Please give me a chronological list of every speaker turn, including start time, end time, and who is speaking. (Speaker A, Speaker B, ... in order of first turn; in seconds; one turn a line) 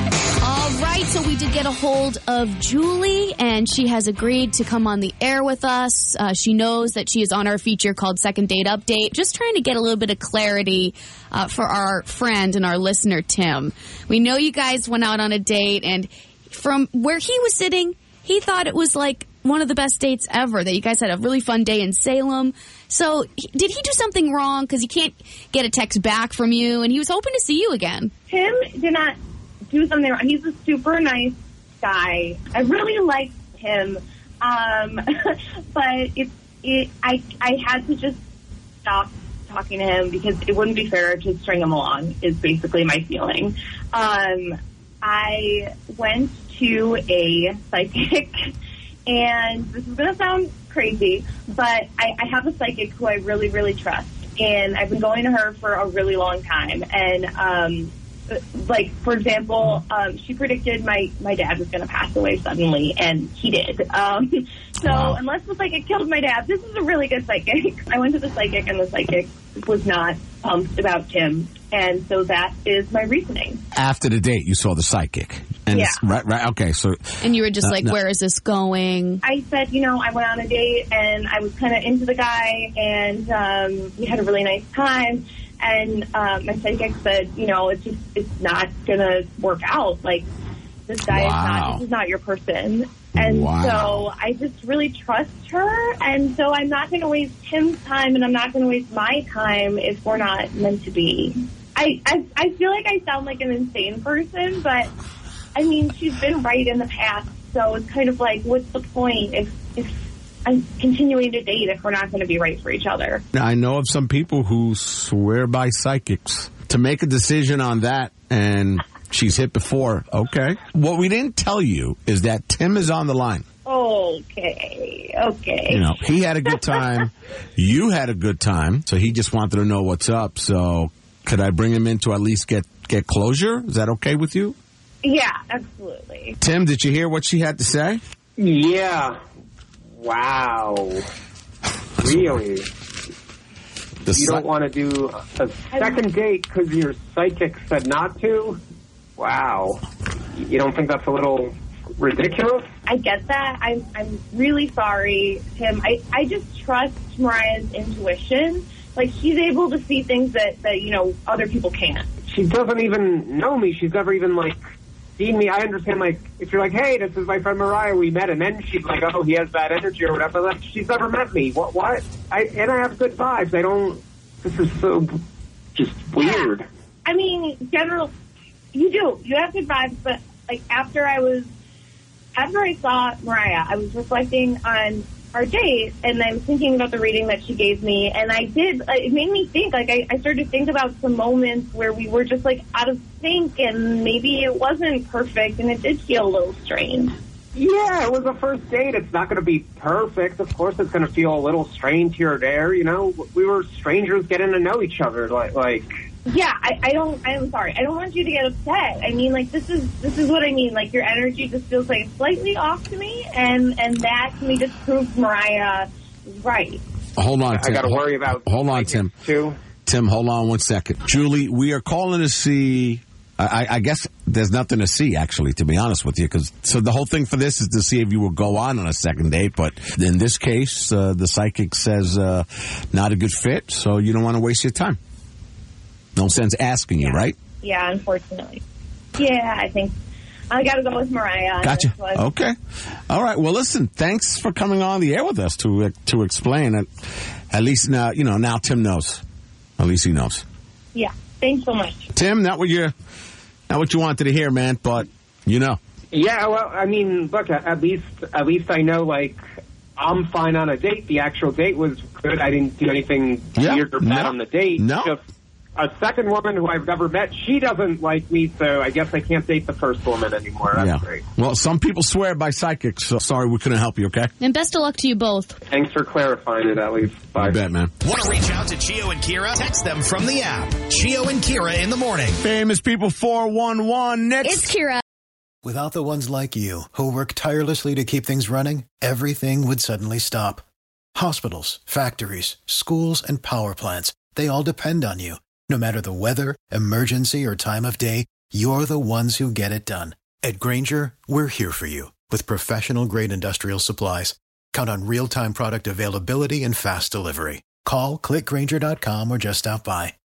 Speaker A: 0.4-28.1
Speaker B: 28.3-29.1
Speaker B: 29.7-38.2
Speaker B: 38.8-48.5
Speaker B: 49.1-73.6
Speaker C: 64.8-65.2
Speaker C: 73.7-77.9
Speaker B: 75.7-76.0
Speaker A: 77.2-79.2
Speaker B: 79.2-90.3
Speaker B: 90.9-104.9
Speaker C: 91.1-91.8
Speaker C: 93.1-94.1
Speaker B: 105.5-113.2
Speaker C: 113.3-123.4
Speaker B: 123.7-126.0
Speaker C: 125.7-134.6
Speaker B: 135.0-136.4
Speaker C: 136.4-138.0
Speaker D: 138.4-139.2
Speaker D: 139.9-141.1
Speaker D: 142.0-142.7
Speaker C: 144.1-144.5
Speaker D: 144.1-148.6
Speaker B: 145.7-146.0
Speaker D: 149.2-152.7
Speaker B: 152.9-162.1
Speaker D: 162.3-164.6
Speaker D: 165.2-175.2
Speaker D: 175.7-176.7
Speaker B: 176.2-176.5
Speaker B: 177.1-178.1
Speaker B: 178.7-181.5
Speaker B: 182.4-197.1
Speaker D: 197.6-205.9
Speaker B: 206.2-216.8
Speaker C: 217.2-219.1
Speaker D: 217.5-219.6
Speaker C: 219.8-235.0
Speaker C: 236.2-237.4
Speaker B: 237.0-238.6
Speaker B: 239.2-239.9
Speaker B: 240.5-242.2
Speaker C: 241.6-242.6
Speaker C: 243.1-246.9
Speaker C: 247.5-249.2
Speaker C: 249.8-250.4
Speaker B: 250.9-252.1
Speaker C: 252.1-252.9
Speaker C: 253.7-255.8
Speaker D: 256.1-259.4
Speaker D: 260.0-265.2
Speaker C: 263.6-265.1
Speaker D: 265.8-271.2
Speaker C: 270.7-274.3
Speaker A: 274.4-275.6
Speaker D: 275.7-277.6
Speaker C: 277.4-277.9
Speaker E: 278.0-282.4
Speaker C: 282.4-284.7
Speaker A: 284.4-285.0
Speaker F: 285.6-290.6
Speaker F: 291.1-310.1